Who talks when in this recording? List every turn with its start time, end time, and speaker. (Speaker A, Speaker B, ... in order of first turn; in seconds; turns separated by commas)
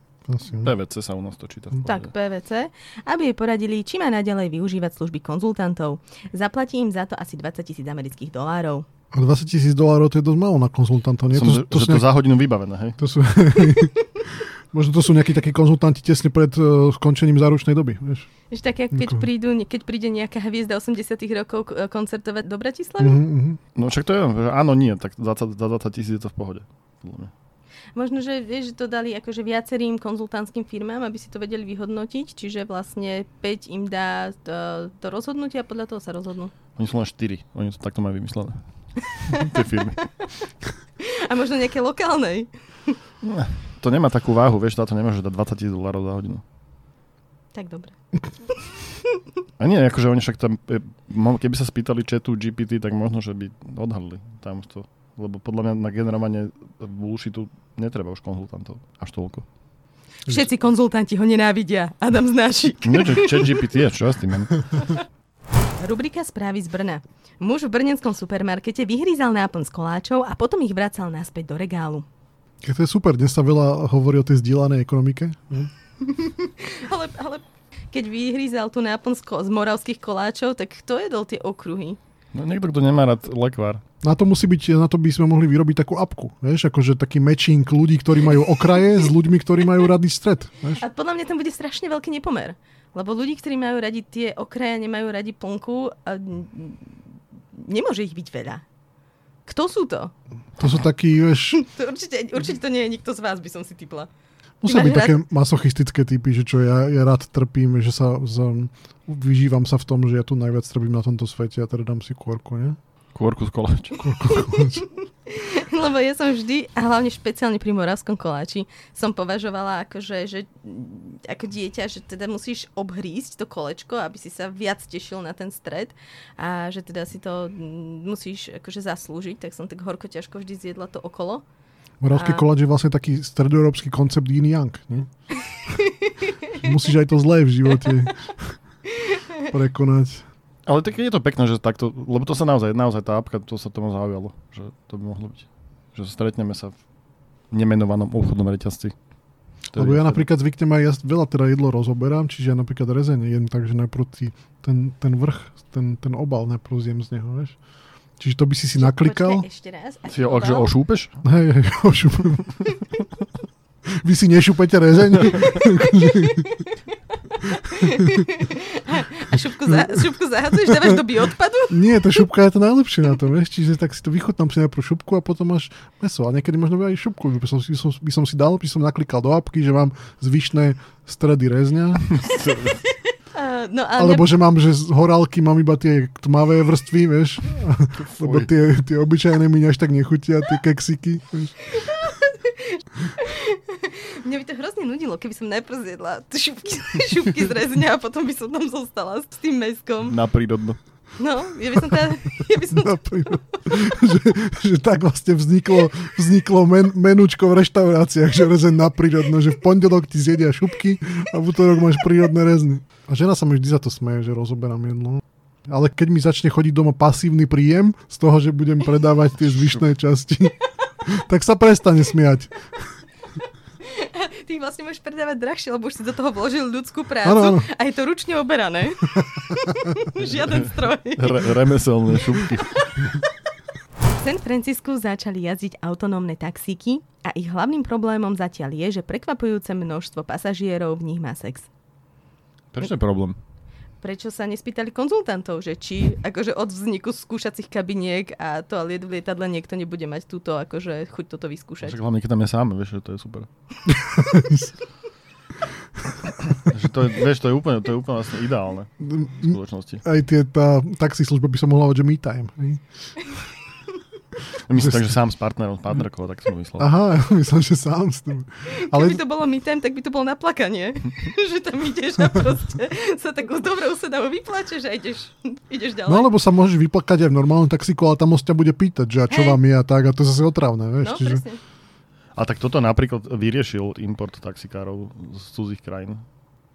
Speaker A: 0.3-0.7, Speaker B: 0.6-2.1, Speaker C: 1.8-8.8, Speaker A: 9.1-12.1, Speaker B: 11.3-13.0, Speaker A: 13.0-18.3, Speaker C: 18.5-23.2, Speaker A: 18.9-19.2, Speaker A: 23.0-23.6, Speaker B: 23.7-27.3, Speaker C: 27.9-36.5, Speaker B: 36.7-40.0, Speaker C: 39.3-40.3, Speaker C: 41.0-43.0, Speaker B: 43.2-46.4, Speaker C: 47.5-48.7, Speaker B: 49.6-59.4, Speaker C: 60.2-63.6, Speaker B: 62.8-64.8, Speaker C: 65.8-72.0, Speaker A: 72.6-75.7, Speaker C: 76.0-82.0, Speaker B: 82.3-83.8, Speaker A: 84.0-90.8, Speaker C: 90.8-97.0, Speaker C: 97.5-98.6, Speaker C: 99.5-100.1, Speaker A: 100.6-101.6, Speaker C: 101.5-104.1, Speaker A: 104.6-112.8, Speaker C: 104.7-105.2, Speaker B: 113.1-114.0, Speaker A: 114.0-114.9, Speaker C: 115.3-131.4, Speaker A: 132.0-135.1, Speaker C: 132.1-132.4, Speaker A: 136.5-138.6, Speaker A: 139.5-140.2, Speaker B: 140.7-146.8, Speaker B: 147.5-148.9, Speaker B: 149.7-150.2, Speaker A: 149.8-157.6, Speaker A: 158.2-159.4, Speaker C: 158.8-160.7, Speaker B: 160.1-161.2, Speaker A: 161.2-162.6, Speaker A: 164.0-166.6, Speaker C: 166.1-166.7, Speaker A: 167.5-167.8, Speaker C: 167.6-171.8, Speaker A: 171.7-182.2, Speaker B: 182.1-182.8, Speaker C: 183.3-184.3, Speaker A: 184.0-191.7, Speaker B: 188.1-188.5, Speaker C: 191.7-200.2, Speaker B: 200.1-200.8, Speaker C: 201.2-203.1, Speaker A: 202.7-223.0, Speaker C: 223.8-231.6, Speaker A: 227.2-227.7, Speaker A: 229.1-229.9, Speaker B: 230.5-233.0, Speaker C: 234.1-241.7, Speaker B: 242.7-243.4, Speaker C: 244.0-252.0, Speaker B: 251.8-253.5, Speaker A: 253.9-254.7, Speaker B: 256.6-260.0, Speaker A: 259.0-263.4, Speaker B: 264.7-266.9, Speaker A: 264.7-265.1, Speaker A: 266.8-269.2, Speaker C: 268.8-276.3, Speaker A: 276.1-281.4, Speaker C: 279.3-279.6, Speaker C: 281.0-281.6, Speaker B: 282.3-286.2